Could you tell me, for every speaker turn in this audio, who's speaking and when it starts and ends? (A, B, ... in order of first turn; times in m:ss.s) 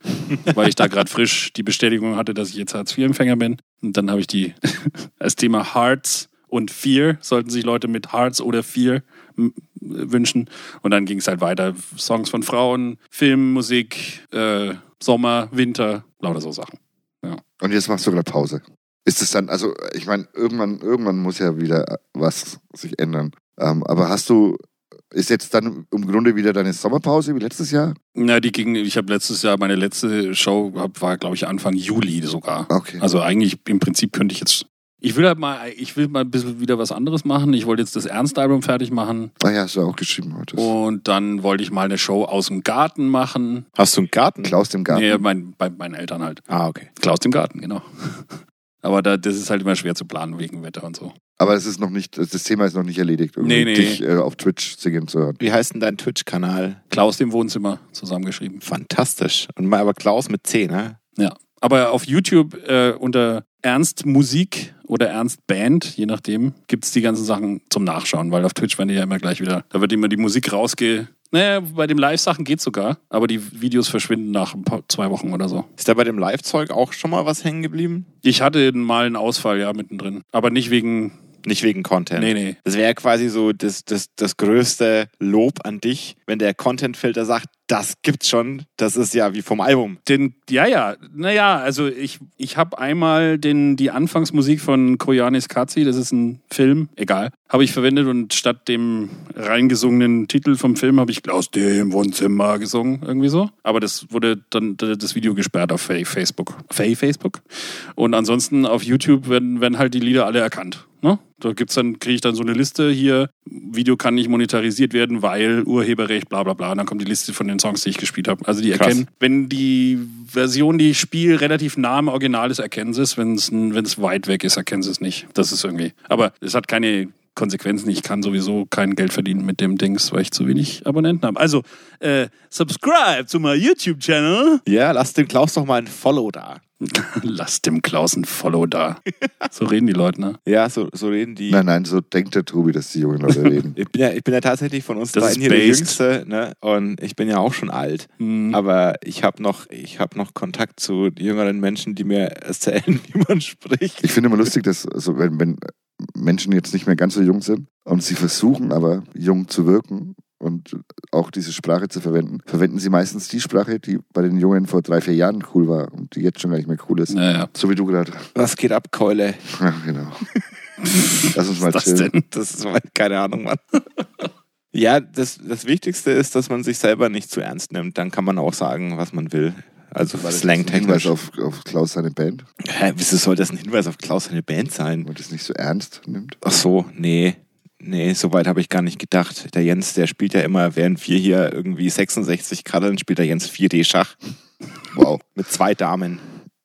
0:00.4-0:17.4 A
0:17.6-0:28.0 B
0:28.1-0:39.3 A
0:32.7-0:33.0 B
0:39.4-0:40.7 B
0:40.6-0:43.6 A
0:43.8-0:44.5 C
0:44.4-0:45.2 B
0:44.9-0:46.4 A
0:46.5-0:46.9 C
0:47.0-0:51.1 A
0:51.4-0:55.4 B
0:53.4-0:54.0 A
0:55.4-0:56.8 C
0:56.9-0:58.6 A
0:58.6-1:01.0 C
1:01.2-1:15.7 A
1:15.8-1:18.1 C
1:18.2-1:21.2 A
1:21.4-1:30.0 C
1:22.2-1:22.6 A
1:30.0-1:47.4 A
1:48.0-2:14.6 A
1:58.7-1:59.0 C
2:14.6-2:16.6 C
2:16.8-2:19.0 A
2:19.5-2:20.4 A
2:20.4-2:21.6 C
2:21.5-2:23.7 B
2:23.7-2:34.1 C
2:25.1-2:26.0 A
2:28.2-2:28.6 A
2:34.0-2:48.3 B
2:47.1-2:47.5 A
2:48.3-2:49.4 C
2:49.5-2:50.2 B
2:51.0-2:52.2 A
2:51.3-2:52.1 B
2:52.3-2:53.6 C
2:54.7-3:01.1 C
3:00.1-3:02.4 B
3:02.6-3:05.1 C
3:05.0-3:06.4 B
3:06.4-3:14.2 C
3:14.9-3:15.2 B
3:15.3-3:16.2 C